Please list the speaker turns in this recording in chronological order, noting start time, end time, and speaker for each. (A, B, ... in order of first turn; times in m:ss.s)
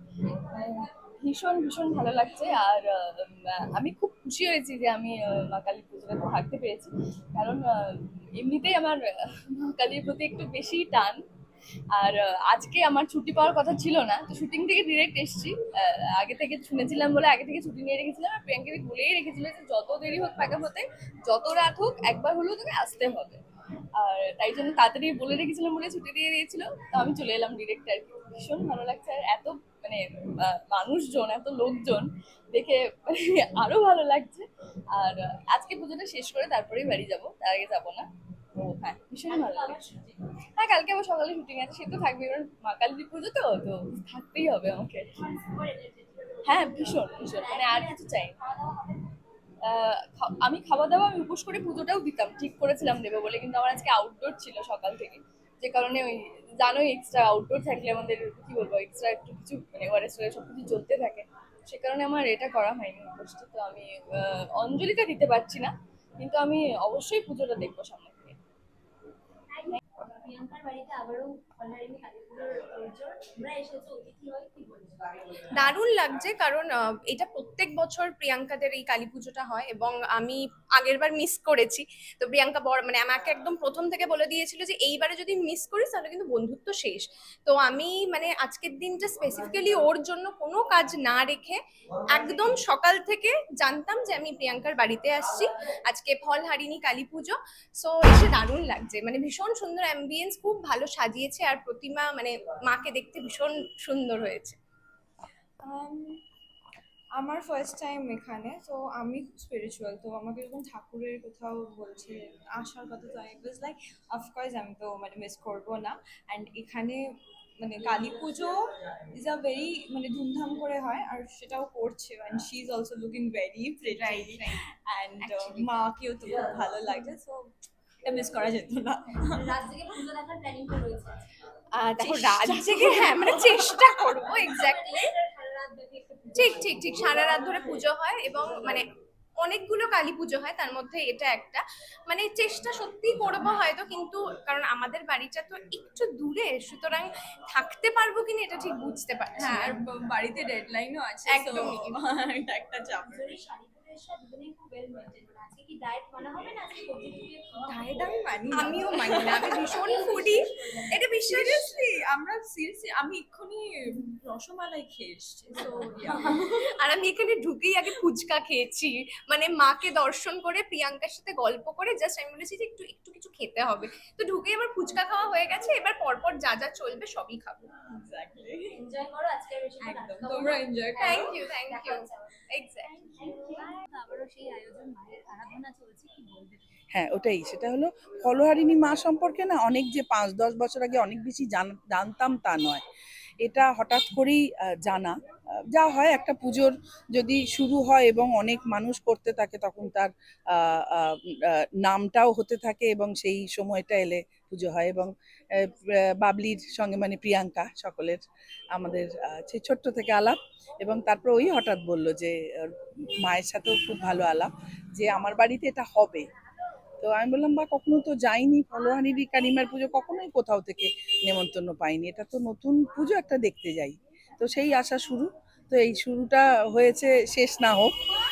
0:00.4-0:11.2 A
0:11.9-0:23.4 A
0:23.9-0:39.8 A
0:39.3-0:40.2 B
0:40.6-0:45.2 A
0:45.2-0:46.4 B
0:46.4-0:48.4 A
0:47.6-0:48.9 B
0:49.6-1:08.4 A
1:09.6-1:15.2 B
1:15.4-1:31.6 C
1:32.1-1:44.6 C
1:45.6-1:46.2 D
1:47.2-2:09.7 D
2:03.9-2:04.6 C
2:05.2-2:05.7 C
2:09.6-2:11.2 B
2:11.7-2:15.1 C
2:12.0-2:14.7 D
2:14.7-2:16.8 B
2:16.3-2:18.8 C
2:19.4-2:29.8 C
2:29.3-2:33.5 D
2:31.3-2:32.0 C
2:33.3-2:37.6 B
2:37.6-2:46.6 D
2:38.5-2:41.9 C
2:39.9-2:40.8 B
2:46.3-2:57.7 C
2:57.8-2:58.8 D
2:58.9-2:59.8 B
2:59.8-3:01.6 D
3:01.0-3:02.9 C
3:02.9-3:06.6 B
3:06.9-3:12.8 E
3:13.4-3:28.2 E
3:28.7-3:36.3 E
3:37.0-3:47.9 E